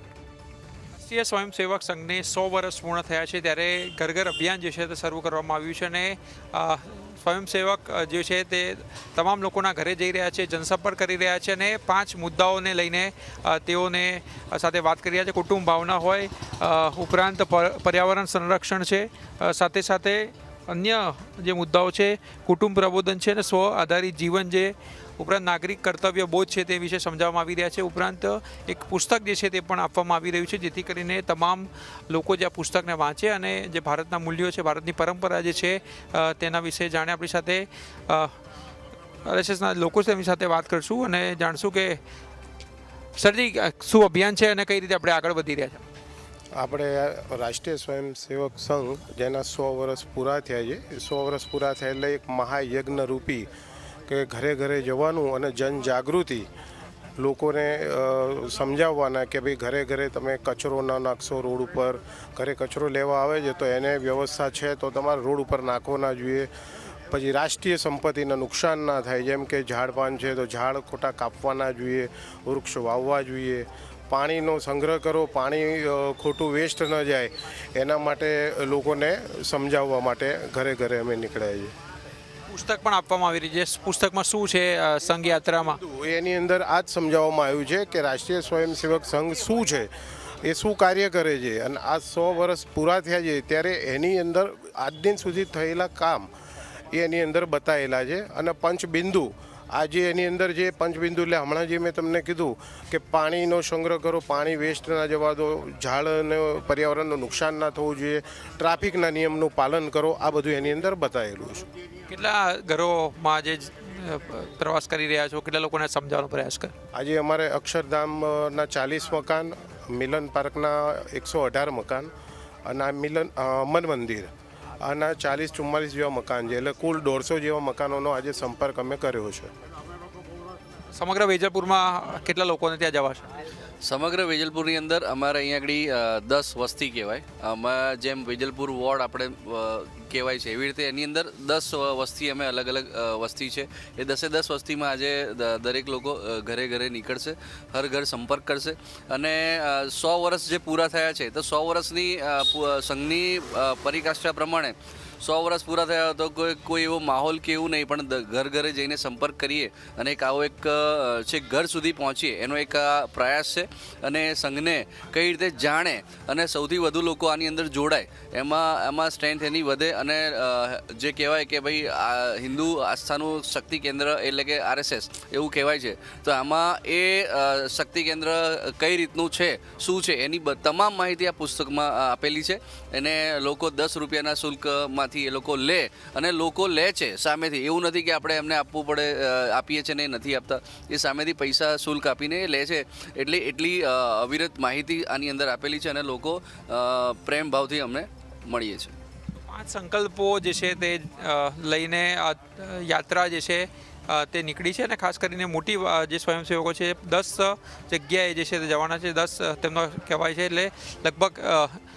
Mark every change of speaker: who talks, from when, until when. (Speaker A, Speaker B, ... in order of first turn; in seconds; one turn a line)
Speaker A: 0.9-38.3
Speaker A: 39.2-42.0
Speaker A: 43.2-45.8
Speaker B: 46.5-53.5
Speaker B: 54.1-56.5
Speaker B: 57.2-66.5
Speaker B: 67.1-81.7
Speaker A: 82.5-85.8
Speaker B: 85.8-89.9
Speaker B: 90.4-96.3
Speaker B: 96.9-111.6
Speaker A: 112.1-116.7
Speaker B: 116.9-122.1
Speaker B: 122.6-129.5
Speaker A: 130.9-133.2
Speaker C: 133.8-198.9
Speaker A: 199.5-211.8